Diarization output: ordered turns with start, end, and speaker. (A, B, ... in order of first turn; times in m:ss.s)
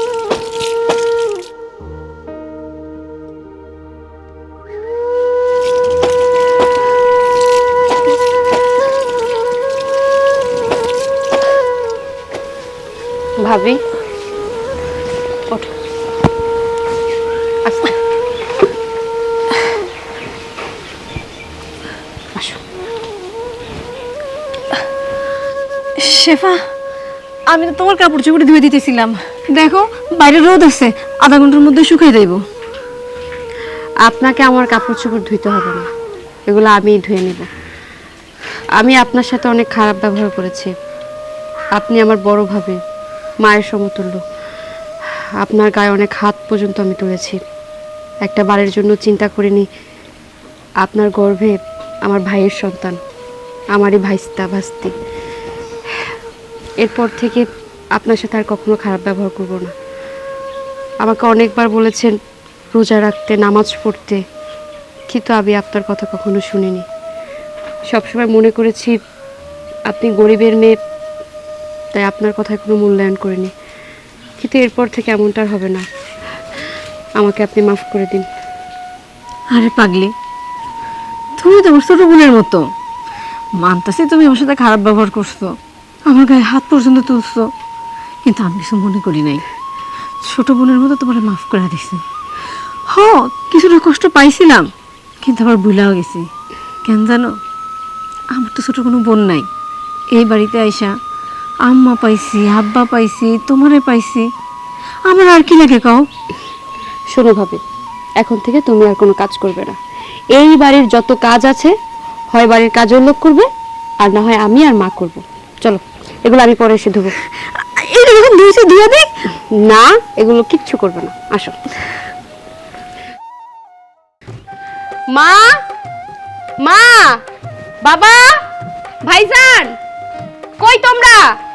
0:13.4-0:13.8 A
0:17.6-0:17.9 A
0:22.4-0:22.6 A
0:26.0-0:26.6 B
0:27.5-0:32.4 B
0:34.1-0:35.9 A
0:36.5-0:37.5 A
0:38.8-0:40.7 A
0:41.8-0:42.8 A
0:43.4-0:44.2 A
0:45.4-0:47.4 A
0:48.2-0:49.7 A
0:50.8-0:53.0 A
0:53.8-0:54.9 A
0:56.8-0:59.7 A
1:01.0-1:02.2 A
1:02.7-1:04.2 A
1:05.1-1:06.9 A
1:07.9-1:09.0 A
1:09.9-1:10.8 A
1:12.0-1:13.5 A
1:14.4-1:15.9 A
1:17.2-1:18.3 A
1:19.5-1:20.1 B
1:21.4-1:22.7 B
1:23.6-1:25.6 B
1:26.1-1:27.5 B
1:28.2-1:29.4 B
1:30.2-1:32.0 B
1:32.9-1:34.7 B
1:35.2-1:36.3 B
1:36.8-1:37.4 B
1:38.3-1:39.5 B
1:40.1-1:41.0 B
1:41.6-1:44.3 B
1:45.1-1:46.1 B
1:47.1-1:47.6 A
1:48.2-1:49.8 A
1:50.3-1:51.7 A
1:52.3-1:53.5 A
1:54.0-1:57.1 A
1:57.6-1:59.1 B
1:59.5-2:01.6 A
2:05.1-2:05.6 A
2:06.6-2:07.2 A
2:07.8-2:08.4 A
2:09.0-2:09.8 A
2:10.6-2:11.3 A